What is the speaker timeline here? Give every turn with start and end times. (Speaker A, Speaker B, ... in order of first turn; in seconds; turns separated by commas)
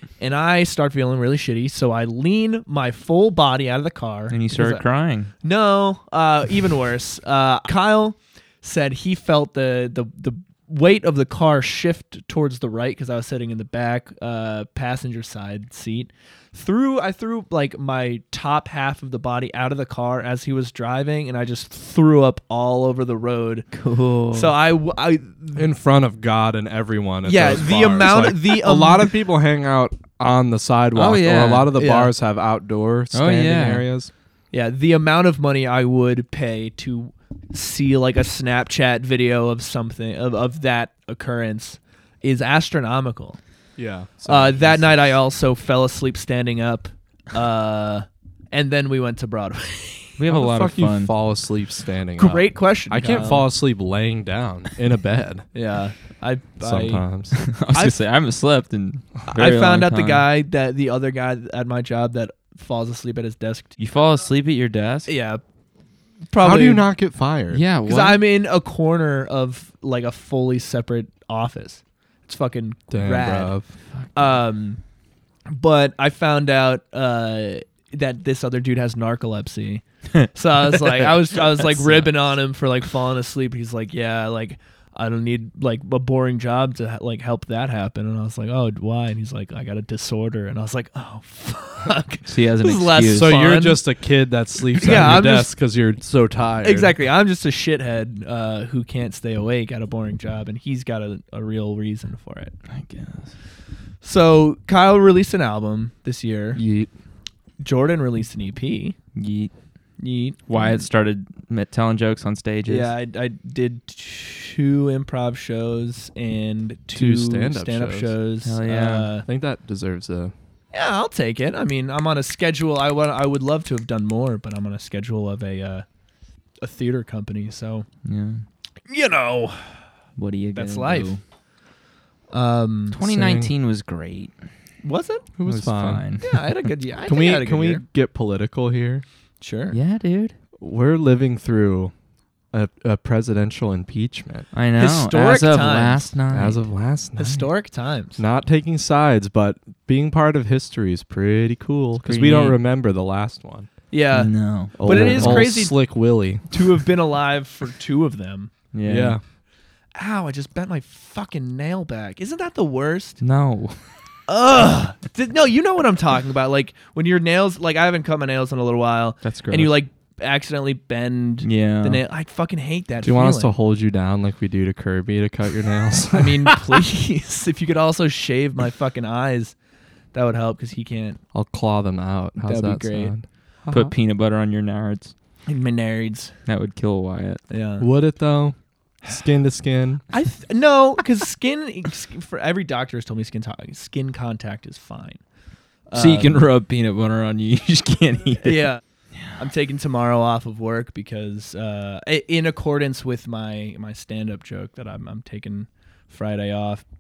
Speaker A: 0.2-4.8, Speaker B: 4.3-5.3, Speaker A: 5.4-23.7, Speaker B: 23.7-24.5, Speaker A: 24.3-25.7, Speaker C: 25.6-34.1, Speaker A: 27.2-29.1, Speaker B: 30.9-31.7, Speaker A: 31.8-32.1, Speaker B: 33.1-33.9, Speaker A: 34.5-43.4, Speaker C: 43.8-45.1, Speaker A: 44.3-50.2, Speaker B: 50.2-51.1, Speaker C: 50.3-55.5, Speaker A: 52.2-53.5, Speaker A: 55.5-57.1, Speaker C: 56.6-57.4, Speaker B: 57.4-60.3, Speaker A: 57.7-58.0, Speaker A: 59.3-63.7, Speaker B: 63.8-65.1, Speaker A: 65.1-65.4, Speaker A: 66.3-66.8, Speaker C: 66.4-67.6, Speaker B: 67.5-68.2, Speaker A: 67.9-73.6, Speaker C: 72.9-73.7, Speaker B: 73.9-74.4, Speaker A: 74.2-74.8, Speaker A: 75.5-93.8, Speaker B: 80.2-82.2, Speaker B: 92.3-93.4, Speaker C: 93.1-97.0, Speaker A: 94.8-95.5, Speaker A: 96.6-102.5, Speaker B: 102.7-103.3, Speaker A: 104.0-106.6, Speaker C: 106.5-106.9, Speaker A: 107.6-109.0, Speaker B: 109.2-109.5, Speaker A: 110.0-110.9, Speaker B: 110.5-112.9, Speaker A: 112.7-119.3, Speaker C: 116.9-118.1, Speaker B: 118.4-119.1, Speaker C: 119.3-120.3, Speaker A: 120.7-125.8, Speaker A: 126.6-127.9, Speaker B: 128.1-128.4, Speaker A: 128.9-129.8, Speaker B: 130.2-131.2, Speaker A: 130.5-131.2, Speaker A: 132.3-133.0, Speaker B: 132.9-134.3, Speaker C: 133.0-133.5, Speaker A: 134.8-135.3, Speaker C: 135.4-136.0, Speaker B: 135.4-136.5, Speaker A: 136.2-137.8, Speaker C: 137.1-139.0, Speaker A: 139.4-139.8, Speaker B: 139.7-140.3, Speaker C: 140.6-141.9, Speaker C: 142.5-144.5, Speaker B: 144.5-146.6, Speaker A: 144.8-146.1, Speaker C: 146.3-147.5, Speaker A: 147.2-148.2, Speaker C: 148.2-153.7, Speaker B: 152.0-152.6, Speaker A: 153.9-155.8, Speaker B: 154.1-155.5, Speaker C: 154.8-156.6, Speaker A: 156.5-158.5, Speaker B: 158.7-159.2, Speaker C: 158.8-159.2, Speaker A: 159.9-163.2, Speaker B: 163.2-163.8, Speaker A: 164.3-173.5, Speaker B: 169.2-169.7, Speaker B: 171.4-172.0, Speaker C: 173.0-176.4, Speaker A: 176.1-179.6, Speaker A: 180.1-181.2, Speaker C: 181.3-183.9, Speaker A: 182.4-183.1, Speaker B: 183.7-185.1, Speaker A: 185.5-186.3, Speaker B: 186.5-187.4, Speaker A: 187.5-187.9, Speaker C: 187.8-190.0, Speaker A: 190.1-195.2, Speaker A: 195.9-196.5, Speaker B: 195.9-199.3, Speaker A: 198.4-198.8, Speaker A: 199.3-206.8